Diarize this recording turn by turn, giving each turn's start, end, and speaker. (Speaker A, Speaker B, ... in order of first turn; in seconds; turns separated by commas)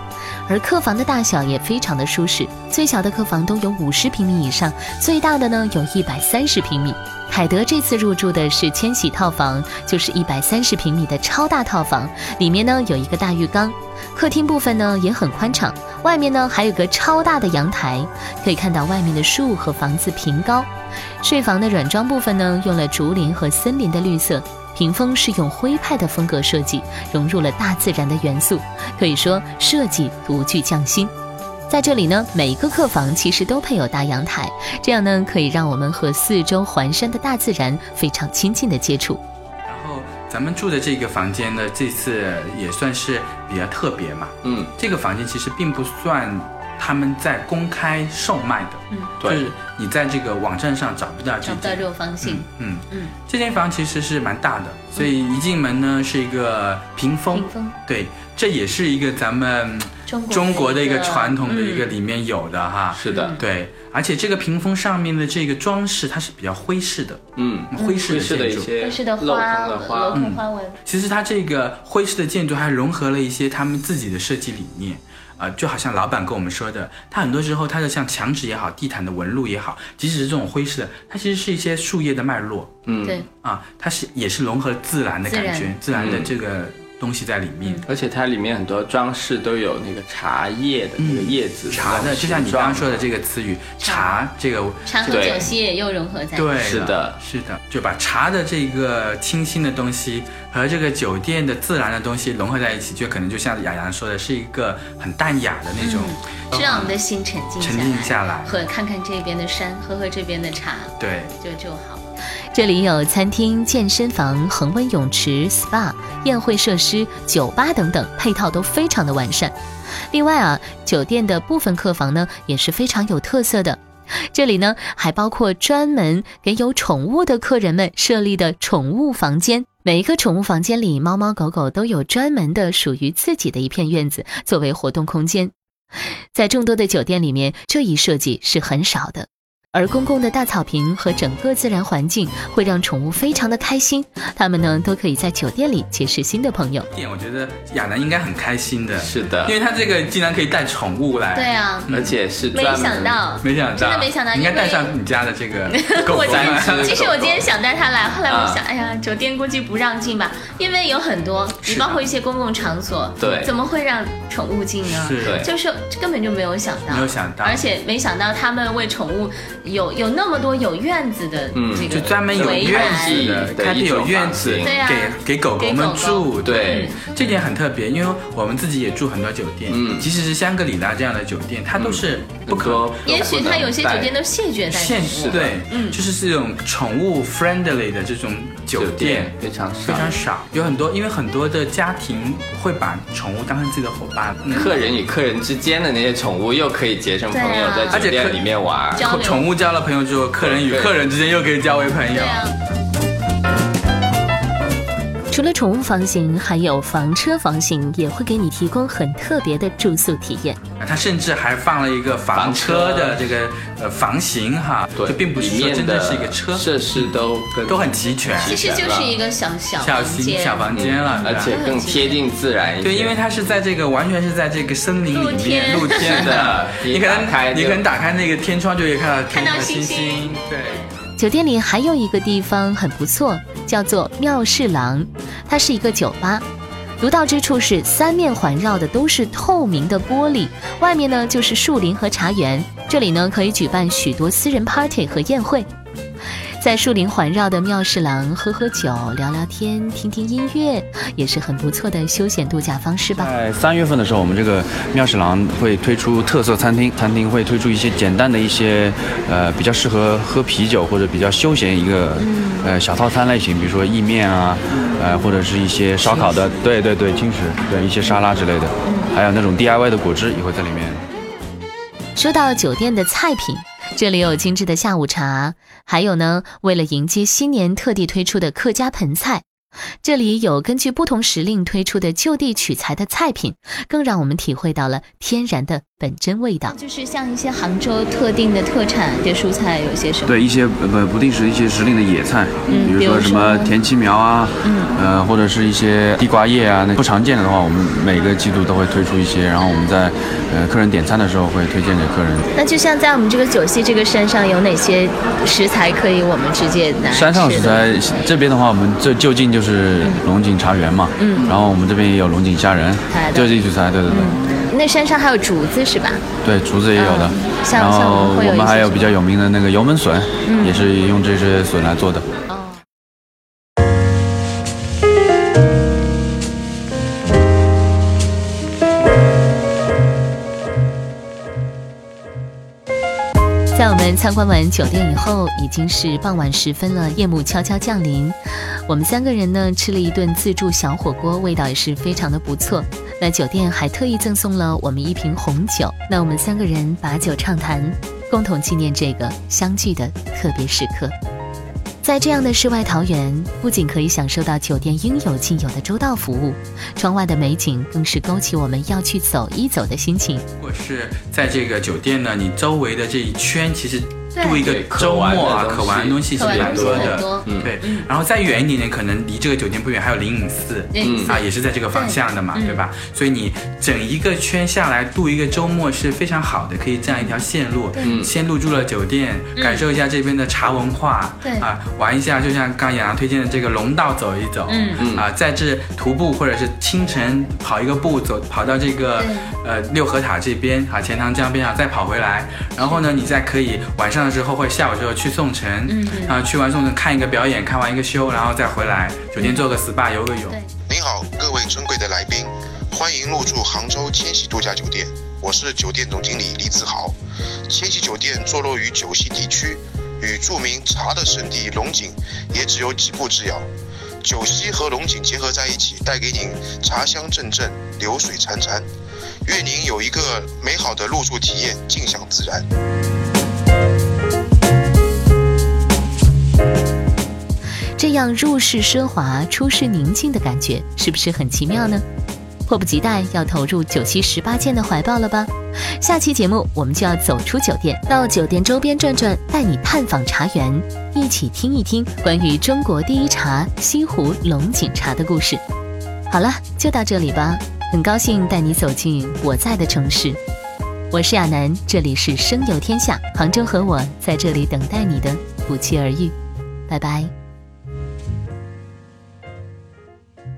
Speaker A: 0.5-20.7, Speaker A: 21.2-31.1, Speaker A: 31.7-39.2, Speaker B: 39.7-68.7, Speaker C: 44.4-44.7, Speaker D: 48.9-49.2, Speaker D: 51.4-53.1, Speaker D: 57.3-57.8, Speaker D: 60.1-61.9, Speaker C: 62.9-63.4, Speaker D: 63.1-63.4, Speaker C: 67.4-70.2, Speaker D: 67.8-68.2, Speaker D: 68.7-70.8, Speaker B: 70.1-82.8, Speaker C: 82.8-83.2, Speaker B: 83.3-87.8, Speaker D: 85.2-86.0, Speaker C: 85.9-86.3, Speaker C: 87.9-93.0, Speaker B: 91.0-95.5, Speaker D: 93.8-94.2, Speaker D: 94.8-96.6, Speaker C: 95.1-95.5, Speaker B: 96.3-107.0, Speaker C: 96.6-97.2, Speaker D: 105.8-112.1, Speaker B: 107.6-108.5, Speaker B: 111.0-111.3, Speaker A: 112.5-119.5, Speaker A: 120.1-123.8, Speaker A: 124.3-135.5, Speaker A: 136.3-146.9, Speaker B: 146.9-152.2, Speaker C: 149.0-149.6, Speaker D: 151.3-151.9, Speaker C: 151.9-153.2, Speaker D: 152.5-154.9, Speaker B: 153.4-157.1, Speaker D: 155.7-173.3, Speaker C: 156.2-157.5, Speaker C: 158.3-158.6, Speaker C: 163.2-163.5, Speaker B: 164.8-165.5, Speaker C: 165.2-165.5, Speaker B: 166.9-167.6, Speaker C: 171.5-174.8, Speaker B: 171.9-183.0, Speaker D: 174.6-177.0, Speaker C: 176.4-176.9, Speaker C: 179.7-180.1, Speaker C: 181.8-184.2, Speaker D: 183.0-186.0, Speaker B: 184.7-194.7, Speaker C: 185.1-185.6, Speaker C: 188.7-190.1, Speaker C: 194.5-199.1, Speaker D: 194.6-194.9, Speaker D: 197.3-198.1, Speaker B: 197.9-202.5, Speaker D: 199.0-199.5, Speaker C: 200.4-201.0, Speaker D: 202.1-202.5, Speaker A: 205.3-210.6, Speaker B: 210.8-218.7, Speaker C: 212.3-213.2, Speaker C: 214.9-219.2, Speaker D: 218.4-222.2, Speaker B: 219.8-221.6, Speaker C: 220.7-223.2, Speaker B: 222.8-230.8, Speaker D: 225.1-226.5, Speaker C: 225.8-227.8, Speaker D: 229.3-230.9, Speaker A: 231.2-236.4, Speaker A: 237.0-245.7, Speaker A: 246.6-253.3, Speaker E: 253.1-271.0, Speaker D: 262.2-262.7, Speaker D: 268.8-269.1, Speaker A: 272.1-279.4, Speaker A: 280.0-286.8, Speaker D: 286.7-290.3, Speaker E: 290.3-302.5, Speaker D: 292.7-293.7, Speaker D: 294.6-295.0, Speaker D: 302.5-307.9, Speaker E: 307.1-314.4, Speaker D: 311.2-311.6, Speaker D: 313.1-316.2, Speaker E: 316.4-322.3, Speaker D: 316.9-319.2, Speaker D: 320.4-320.8, Speaker D: 322.5-322.8, Speaker A: 333.7-351.1, Speaker A: 352.0-360.4, Speaker B: 360.6-400.6, Speaker D: 364.3-364.7, Speaker C: 364.6-367.7, Speaker D: 366.3-368.1, Speaker D: 370.9-372.8, Speaker C: 371.0-371.3, Speaker D: 377.9-378.3, Speaker C: 378.0-378.3, Speaker D: 379.6-379.9, Speaker D: 381.4-381.7, Speaker D: 384.7-385.0, Speaker C: 385.0-385.3, Speaker D: 389.2-389.5, Speaker D: 392.8-393.1, Speaker D: 395.9-396.4, Speaker D: 399.4-399.6, Speaker F: 400.9-407.1, Speaker F: 407.7-413.7, Speaker F: 414.2-418.9, Speaker F: 419.4-422.6, Speaker A: 428.0-432.0, Speaker A: 432.7-445.6, Speaker A: 446.3-450.4, Speaker A: 451.1-456.3, Speaker A: 456.9-457.3